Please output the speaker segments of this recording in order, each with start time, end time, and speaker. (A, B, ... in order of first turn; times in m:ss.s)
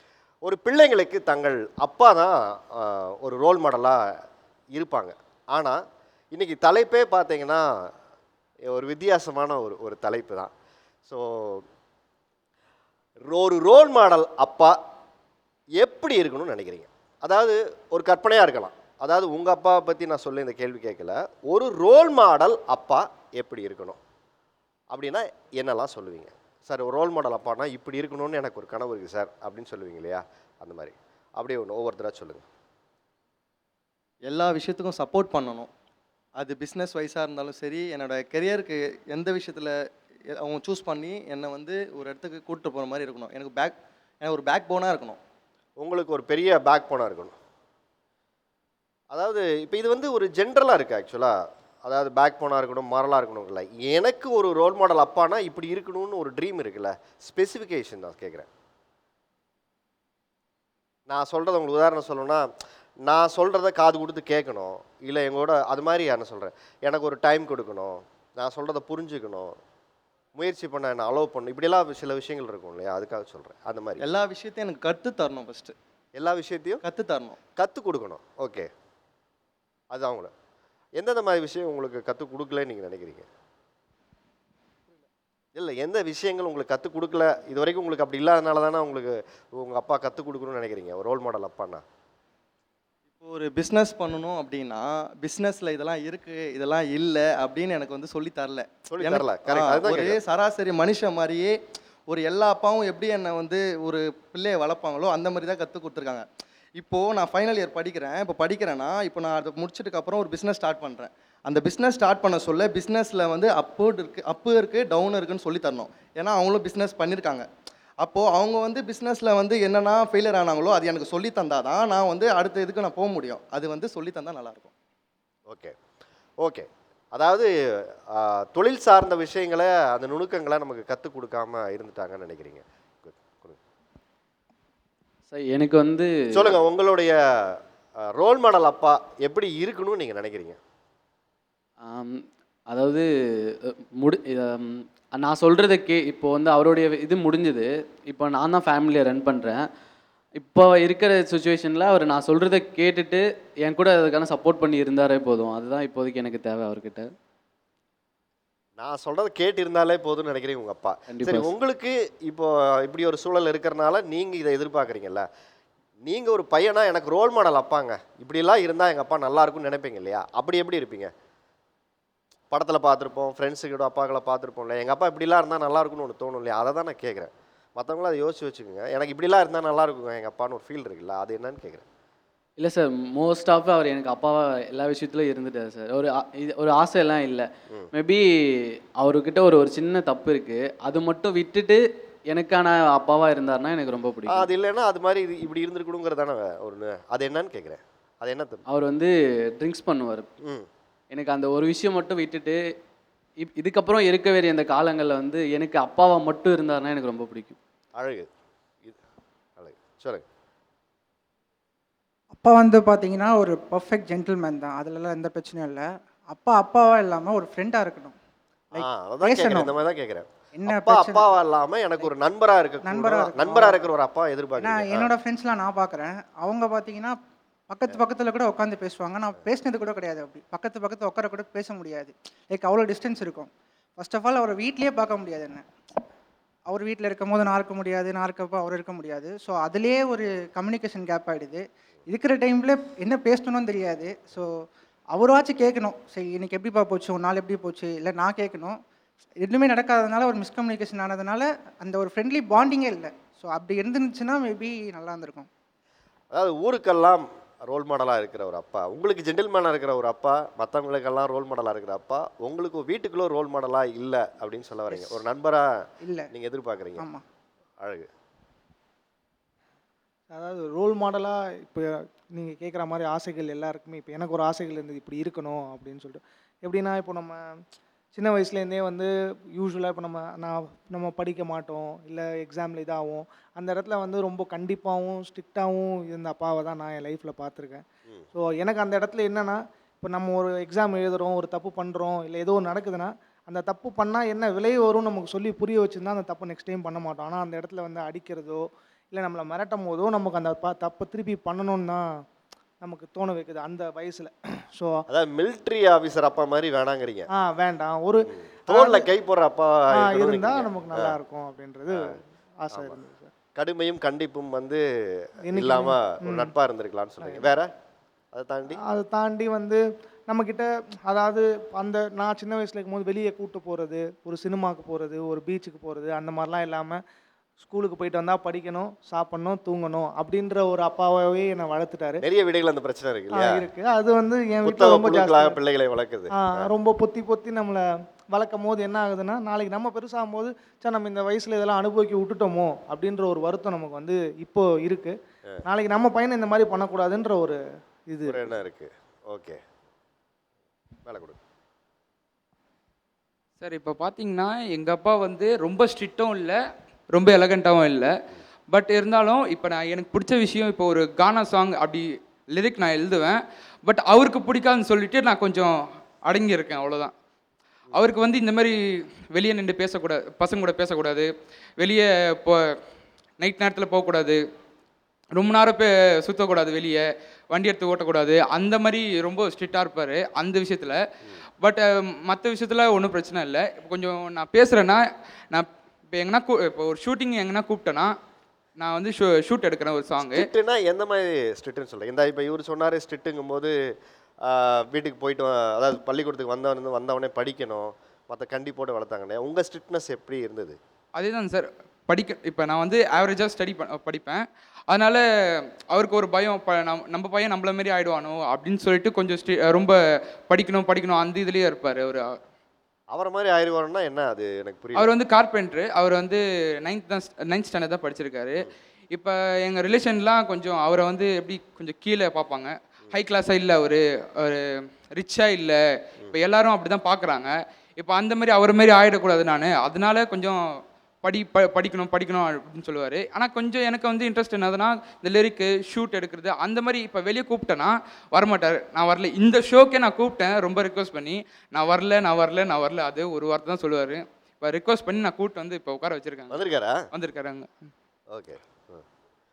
0:00.4-0:04.0 A
0:04.7-0:05.8 A
0:06.3-0:07.6 A
0:08.7-0:10.5 A
0:11.1-0:11.6 A
0:13.2-0:14.8 A
0:15.8-0:24.0 A
0:24.9-0:32.4 A
0:34.3-0:35.7 B
0:36.4-0:39.7 B
0:40.4-0:45.2 B
0:45.8-0:47.3 A
0:49.1-0:58.5 A
1:01.1-1:02.5 A
1:03.1-1:09.5 A
1:10.4-1:14.0 A
1:14.0-1:15.8 B
1:16.2-1:16.8 A
1:16.8-1:17.4 B
1:17.6-1:18.7 A
1:19.9-1:20.3 A
1:21.0-1:23.3 A
1:25.6-1:31.8 A
1:33.2-1:41.5 B
1:38.9-1:40.2 A
1:42.1-1:46.2 B
1:46.8-1:57.5 B
1:58.0-2:04.7 B
2:05.5-2:05.8 A
2:06.4-2:13.6 A
2:15.3-2:16.1 C
2:16.3-2:20.6 A
2:21.8-2:23.1 C
2:23.6-2:29.6 C
2:30.4-2:37.1 C
2:38.8-2:45.3 A
2:41.1-2:41.5 C
2:46.0-2:51.1 A
2:52.5-3:01.8 A
3:02.6-3:14.4 C
3:14.3-3:18.6 A
3:18.7-3:20.3 C
3:20.4-3:20.7 A
3:21.1-3:22.6 C
3:23.4-3:27.6 C
3:28.0-3:28.3 A
3:29.6-3:30.2 A
3:32.3-3:38.2 D
3:38.7-3:39.8 D
3:38.7-3:45.1 A
3:40.5-3:41.3 D
3:42.8-3:43.8 D
3:44.6-3:47.2 D
3:47.7-3:55.6 D
3:56.7-4:04.5 D
4:05.1-4:08.8 D
4:09.4-4:15.5 D
4:16.3-4:27.1 A
4:24.9-4:25.2 D
4:26.0-4:26.3 D
4:27.0-4:27.2 D
4:27.8-4:28.1 A
4:30.3-5:02.2 E
5:02.8-5:05.0 E
5:05.1-5:07.3 A
5:07.3-5:09.1 E
5:08.3-5:11.2 A
5:09.9-5:13.3 E
5:12.7-5:13.0 A
5:13.6-5:17.7 A
5:15.4-5:16.5 E
5:17.2-5:17.5 E
5:18.3-5:18.8 A
5:18.8-5:27.0 E
5:27.6-5:32.2 E
5:32.2-5:33.7 A
5:33.3-5:35.6 E
5:34.6-5:36.7 A
5:36.3-5:48.6 E
5:48.3-5:49.6 A
5:51.0-5:51.4 A
5:53.6-5:56.6 F
5:57.1-5:58.1 F
5:58.7-6:05.7 F
6:06.2-6:07.1 F
6:07.9-6:08.7 F
6:09.3-6:11.3 F
6:11.8-6:12.6 F
6:13.4-6:14.4 F
6:15.4-6:21.0 F
6:21.6-6:28.1 F
6:28.8-6:30.4 F
6:30.2-6:33.7 A
6:34.4-6:40.8 A
6:41.2-6:45.2 F
6:45.9-6:50.0 F
6:50.5-6:52.3 F
6:53.1-6:55.1 A
6:55.0-7:05.8 F
7:06.3-7:10.6 F
7:11.2-7:26.6 F
7:26.5-7:27.0 A
7:27.1-7:27.7 F
7:28.3-7:29.0 A